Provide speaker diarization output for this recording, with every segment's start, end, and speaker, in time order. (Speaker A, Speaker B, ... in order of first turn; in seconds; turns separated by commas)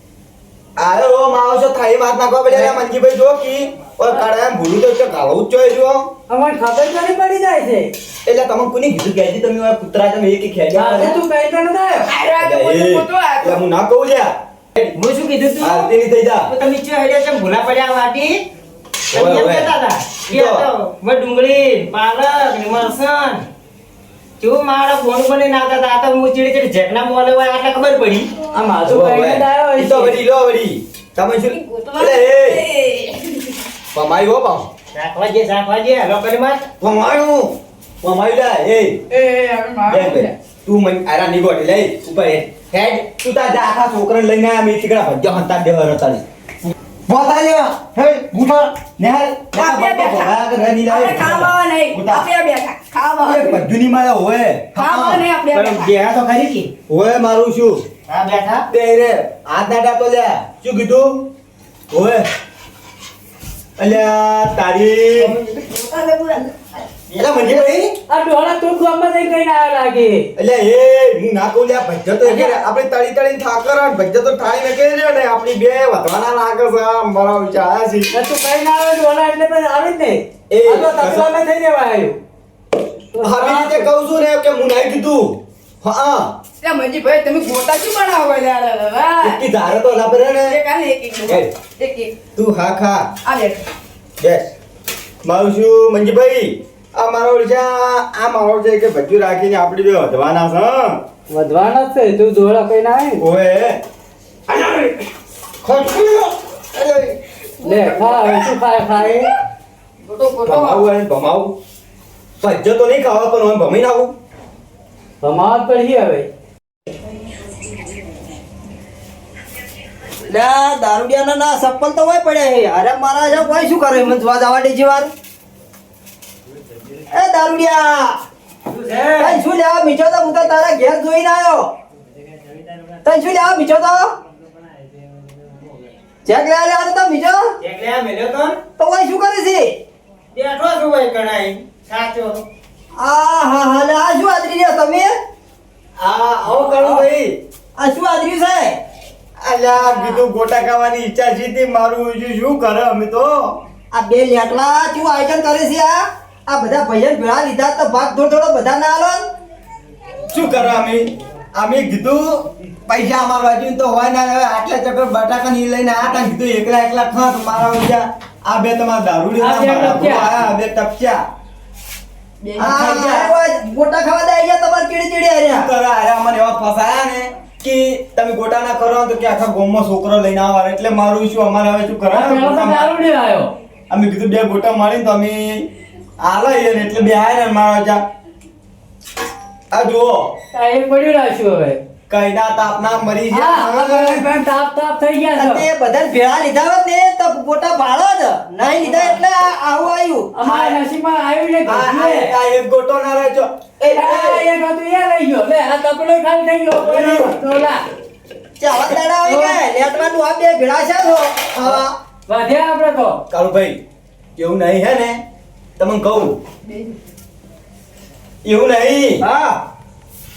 Speaker A: 0.8-6.1, Speaker B: 6.3-7.9, Speaker A: 8.3-11.2, Speaker B: 10.7-12.1, Speaker C: 12.1-13.6, Speaker A: 12.4-14.9, Speaker D: 14.9-15.9, Speaker A: 15.6-16.5, Speaker D: 16.5-18.4, Speaker A: 19.1-19.8, Speaker D: 19.1-23.5, Speaker A: 20.3-20.7, Speaker D: 24.4-28.3, Speaker B: 28.5-30.2, Speaker A: 28.9-32.6, Speaker C: 31.5-33.6, Speaker A: 33.9-34.7, Speaker D: 34.9-36.7, Speaker A: 36.8-39.0, Speaker C: 39.1-40.3, Speaker A: 39.9-46.2, Speaker A: 47.1-52.3, Speaker C: 49.5-53.7, Speaker A: 53.2-55.3, Speaker C: 54.8-55.9, Speaker D: 55.5-56.7, Speaker A: 56.9-57.8, Speaker D: 58.1-58.7, Speaker A: 58.7-61.3, Speaker A: 61.9-62.3, Speaker A: 63.8-65.4, Speaker C: 65.2-66.8, Speaker A: 67.1-68.0, Speaker B: 68.1-70.3, Speaker A: 70.4-78.1, Speaker B: 72.2-72.6, Speaker B: 78.1-82.2, Speaker A: 80.5-81.3, Speaker B: 83.1-83.9, Speaker A: 83.2-86.4, Speaker C: 86.6-92.2, Speaker A: 89.2-90.6, Speaker A: 91.3-91.5, Speaker A: 92.4-93.1, Speaker C: 93.2-93.7, Speaker A: 94.2-94.5, Speaker A: 95.2-101.0, Speaker B: 101.3-103.2, Speaker A: 103.2-103.8, Speaker A: 104.5-105.0, Speaker A: 105.6-107.2, Speaker C: 107.6-108.4, Speaker B: 107.6-109.3, Speaker C: 110.0-110.8, Speaker A: 110.4-111.5, Speaker A: 112.4-114.1, Speaker B: 115.2-116.3, Speaker E: 120.2-125.1, Speaker E: 127.1-128.2, Speaker D: 128.7-129.4, Speaker E: 129.2-131.7, Speaker E: 133.0-134.2, Speaker E: 136.2-137.6, Speaker D: 137.6-138.6, Speaker E: 138.8-139.8, Speaker D: 140.3-142.4, Speaker E: 143.0-145.1, Speaker A: 146.0-147.4, Speaker E: 147.8-148.8, Speaker A: 149.4-153.6, Speaker E: 153.9-159.3, Speaker A: 160.3-171.2, Speaker B: 169.4-170.4, Speaker C: 172.4-172.7, Speaker E: 172.6-175.7, Speaker A: 172.6-173.3, Speaker A: 175.5-182.9, Speaker B: 182.1-183.5, Speaker A: 183.9-185.7, Speaker A: 186.2-188.0, Speaker A: 189.7-190.3, Speaker B: 190.5-191.8, Speaker A: 192.1-194.3, Speaker B: 193.3-195.7, Speaker E: 195.4-200.7, Speaker D: 198.8-199.2, Speaker B: 200.3-202.3, Speaker A: 201.7-204.4, Speaker B: 203.9-207.8, Speaker A: 206.8-207.3, Speaker E: 208.6-211.6, Speaker B: 209.2-209.6, Speaker A: 211.6-212.0, Speaker B: 212.3-213.2, Speaker A: 213.3-213.8, Speaker A: 214.4-215.2, Speaker A: 215.8-216.4, Speaker A: 218.4-219.2, Speaker E: 219.2-219.5